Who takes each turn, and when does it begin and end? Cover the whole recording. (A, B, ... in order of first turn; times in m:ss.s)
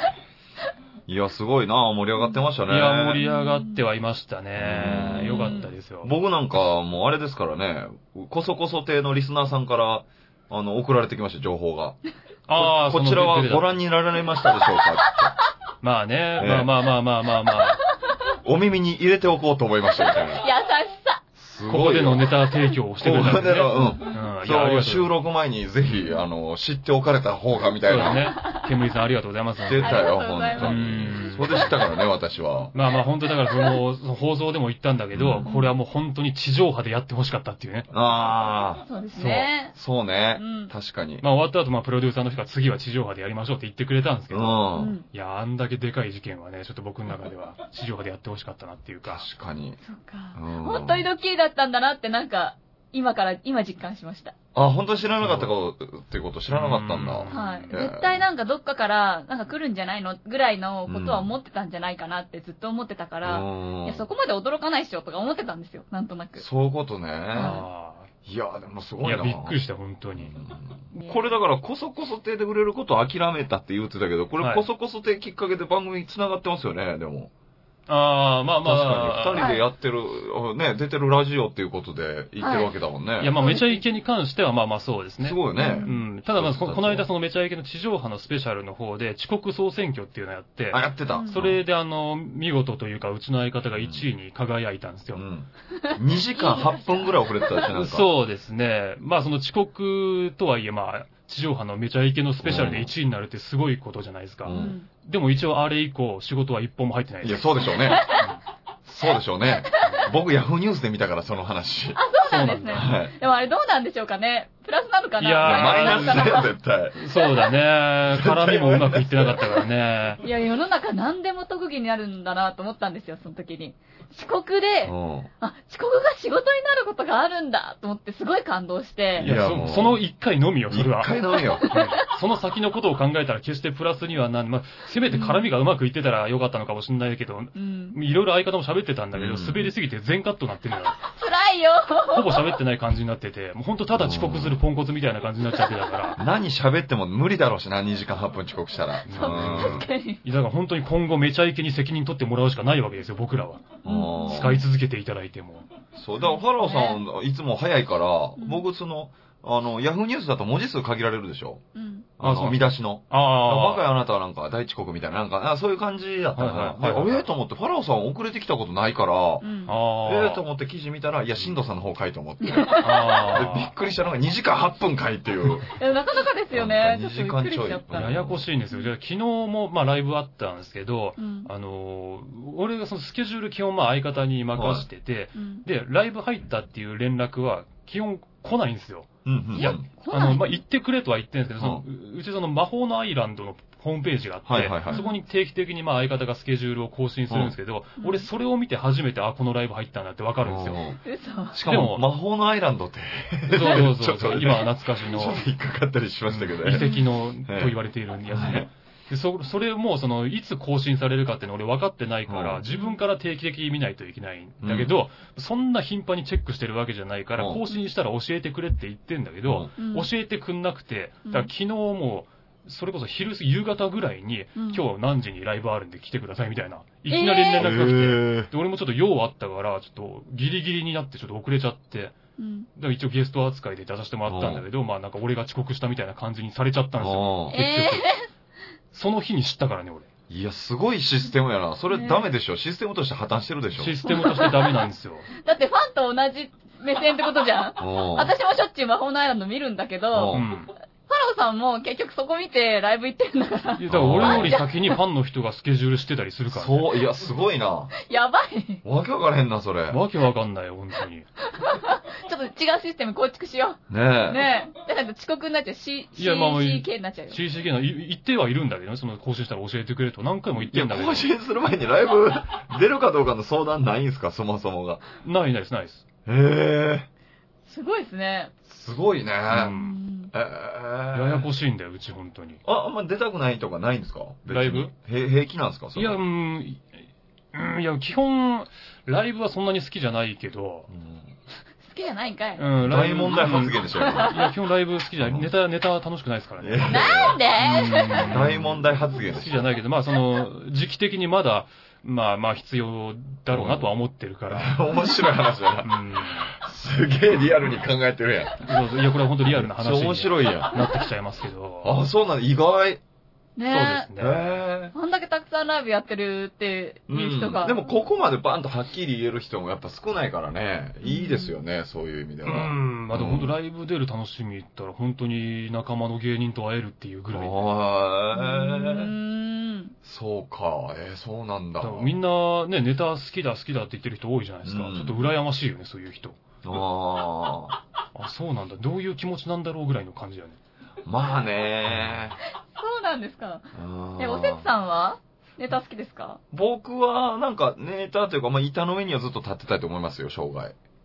0:01.1-0:03.2 A
0:02.7-0:06.1 B
0:03.2-0:03.8 C
0:04.6-0:12.0 A
0:04.9-0:05.7 C
0:12.5-0:13.8 B
0:12.5-0:15.3 A
0:15.8-0:17.8 B
0:16.4-0:16.7 A
0:18.4-0:20.5 A
0:20.1-0:21.2 C
0:21.4-0:22.3 A
0:21.7-0:25.1 B
0:23.0-0:28.3 A
0:27.8-0:31.8 B
0:29.6-0:32.7 A
0:29.8-0:31.9 C
0:32.7-0:37.9 B
0:33.5-0:33.8 C
0:35.1-0:35.5 A
0:35.4-0:35.7 C
0:37.9-0:41.2 A
0:38.8-0:39.7 C
0:40.3-0:40.7 C
0:41.2-0:49.2 B
0:44.3-0:44.9 A
0:44.7-0:45.0 C
0:49.0-0:49.8 A
0:49.8-0:54.4 C
0:50.3-0:51.1 A
0:54.5-0:58.2 A
0:55.2-0:55.5 B
0:56.5-0:57.7 B
0:57.3-1:06.4 C
1:00.9-1:01.3 A
1:03.2-1:04.0 A
1:06.4-1:07.6 A
1:07.3-1:07.6 C
1:07.3-1:08.1 B
1:08.2-1:09.6 A
1:09.0-1:10.3 B
1:10.2-1:17.3 A
1:11.0-1:11.2 C
1:14.4-1:14.6 B
1:17.9-1:19.5 B
1:18.6-1:23.4 A
1:19.3-1:19.6 C
1:22.4-1:22.7 C
1:23.2-1:35.2 B
1:23.3-1:23.8 C
1:25.2-1:27.1 A
1:25.6-1:25.9 C
1:30.7-1:31.6 A
1:31.1-1:31.4 C
1:33.8-1:34.0 A
1:35.1-1:38.1 A
1:35.8-1:37.6 C
1:37.7-1:48.4 B
1:42.4-1:42.9 A
1:44.4-1:44.8 A
1:44.5-1:44.9 C
1:47.2-1:48.2 A
1:47.8-1:48.2 C
1:48.8-1:52.0 A
1:52.0-1:56.5 C
1:52.3-1:52.8 B
1:52.7-1:53.1 A
1:55.2-1:56.4 B
1:55.4-1:57.0 A
1:56.9-2:00.2 B
1:58.1-1:59.6 A
2:00.2-2:09.3 C
2:04.8-2:05.3 A
2:09.2-2:10.0 A
2:09.2-2:21.0 B
2:10.7-2:11.6 A
2:11.4-2:12.0 C
2:15.1-2:15.5 C
2:17.5-2:18.0 C
2:19.1-2:19.7 A
2:21.0-2:22.5 C
2:22.1-2:26.2 B
2:23.9-2:24.6 A
2:26.2-2:29.9 A
2:29.0-2:35.7 B
2:29.1-2:30.2 C
2:33.8-2:34.6 A
2:33.8-2:34.6 C
2:35.9-2:41.6 A
2:36.6-2:37.0 C
2:38.4-2:38.6 C
2:41.7-2:42.1 C
2:42.2-2:49.4 A
2:42.2-2:43.8 B
2:46.3-2:47.3 B
2:49.4-2:49.8 C
2:49.6-2:50.4 B
2:50.0-2:55.7 A
2:52.4-2:53.2 C
2:52.8-2:53.7 B
2:55.7-2:58.2 C
2:56.5-2:58.4 A
2:57.9-3:20.8 B
3:01.2-3:01.5 C
3:04.5-3:04.9 A
3:05.4-3:05.6 C
3:09.2-3:09.8 A
3:09.6-3:10.6 C
3:11.6-3:11.8 A
3:14.4-3:15.0 A
3:14.9-3:15.2 C
3:18.0-3:18.3 C
3:20.4-3:21.0 A
3:21.0-3:21.6 C
3:21.5-3:26.9 A
3:21.6-3:22.0 B
3:23.5-3:25.4 B
3:26.3-3:52.2 B
3:26.7-3:27.1 C
3:27.4-3:27.8 A
3:28.3-3:28.7 A
3:32.3-3:32.6 A
3:32.7-3:33.0 C
3:34.6-3:34.9 A
3:37.4-3:37.6 A
3:39.4-3:39.7 A
3:39.8-3:40.1 C
3:44.6-3:44.8 C
3:47.1-3:47.7 C
3:47.6-3:48.5 A
3:52.4-3:52.7 C
3:52.7-3:58.1 B
3:54.3-3:54.6 A
3:57.0-3:57.6 A
3:57.5-3:58.3 C
3:58.9-4:00.1 B
4:00.3-4:04.0 A
4:01.9-4:02.3 C
4:03.8-4:05.3 B
4:04.0-4:04.9 C
4:05.4-4:10.5 C
4:07.8-4:08.3 A
4:10.1-4:10.5 A
4:10.3-4:10.7 B
4:11.1-4:14.9 C
4:13.8-4:16.9 B
4:13.9-4:14.6 A
4:16.5-4:17.9 A
4:18.0-4:18.8 C
4:18.8-4:20.0 A
4:19.9-4:21.2 B
4:21.5-4:27.4 C
4:23.9-4:24.4 A
4:26.2-4:31.3 B
4:30.7-4:35.0 A
4:35.2-4:36.0 B
4:36.2-4:37.1 A
4:37.7-4:38.5 C
4:38.6-4:39.7 A
4:39.5-4:39.9 B
4:39.5-4:40.3 C
4:40.3-4:41.5 A
4:41.1-4:42.6 B
4:42.6-4:46.2 A
4:44.5-4:44.9 B
4:45.9-4:46.8 B
4:47.5-4:50.9 B
4:50.9-4:51.3 A
4:51.8-4:52.7 C
4:52.6-4:57.0 B
4:52.8-4:54.3 A
4:53.9-4:54.4 C
4:55.2-4:55.5 A
4:56.6-4:57.4 A
4:56.9-4:58.4 C
4:57.6-5:04.8 B
4:58.2-4:59.7 A
5:03.5-5:03.9 A
5:04.5-5:08.7 A
5:05.8-5:06.5 B
5:08.6-5:12.0 B
5:09.4-5:10.8 A
5:11.8-5:13.0 A
5:13.6-5:14.1 C
5:13.7-5:14.4 B
5:14.2-5:14.9 A
5:14.9-5:17.8 C
5:17.1-5:23.5 A
5:21.0-5:21.5 C
5:22.4-5:27.7 B
5:27.3-5:29.1 A
5:28.3-5:29.9 C
5:30.0-5:32.2 A
5:31.8-5:36.4 B
5:34.6-5:35.3 A
5:36.6-5:37.8 A
5:38.1-5:40.6 B
5:41.0-5:42.4 A
5:41.9-5:42.2 B
5:42.7-5:46.4 C
5:43.7-5:44.6 A
5:46.5-5:50.7 A